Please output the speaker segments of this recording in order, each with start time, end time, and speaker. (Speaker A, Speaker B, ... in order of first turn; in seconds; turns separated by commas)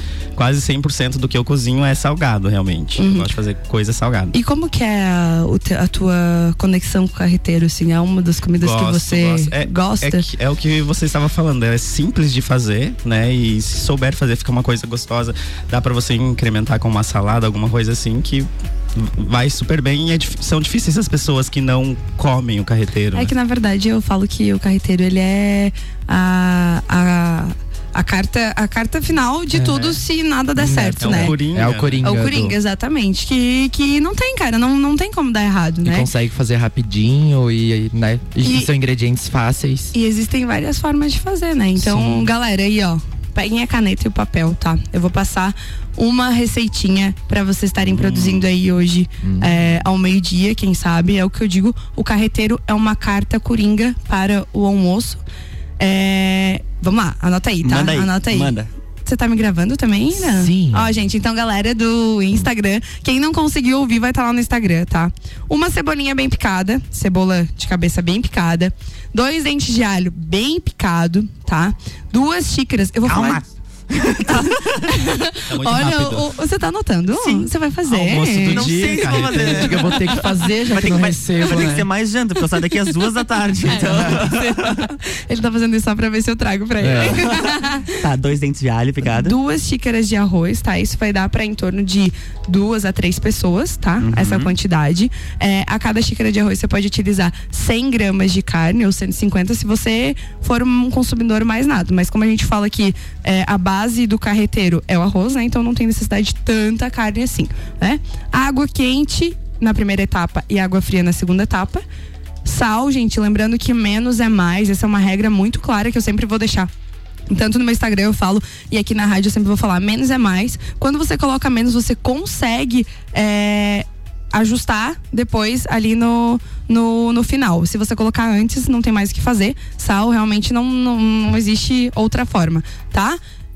Speaker A: 0.3-4.3, Speaker B: 3.0-3.3, Speaker B: 4.3-10.2, Speaker A: 8.5-23.3, Speaker B: 23.1-31.4, Speaker C: 29.5-30.0, Speaker C: 30.5-32.6, Speaker A: 30.7-32.0, Speaker B: 32.0-36.1, Speaker C: 35.8-39.9, Speaker B: 38.4-38.7, Speaker B: 39.9-55.2, Speaker C: 41.8-42.3, Speaker A: 47.8-48.5, Speaker C: 49.2-49.7, Speaker B: 55.8-73.4, Speaker D: 57.6-58.7, Speaker C: 60.1-60.9, Speaker D: 73.0-74.8, Speaker B: 74.8-78.7, Speaker A: 75.5-76.3, Speaker D: 77.1-77.5, Speaker A: 77.9-79.7, Speaker C: 78.3-81.9, Speaker D: 78.4-84.7, Speaker B: 83.7-87.9, Speaker C: 86.8-87.2, Speaker D: 88.0-89.3, Speaker B: 89.1-111.8, Speaker D: 94.0-94.5, Speaker B: 112.4-116.7, Speaker B: 117.3-133.2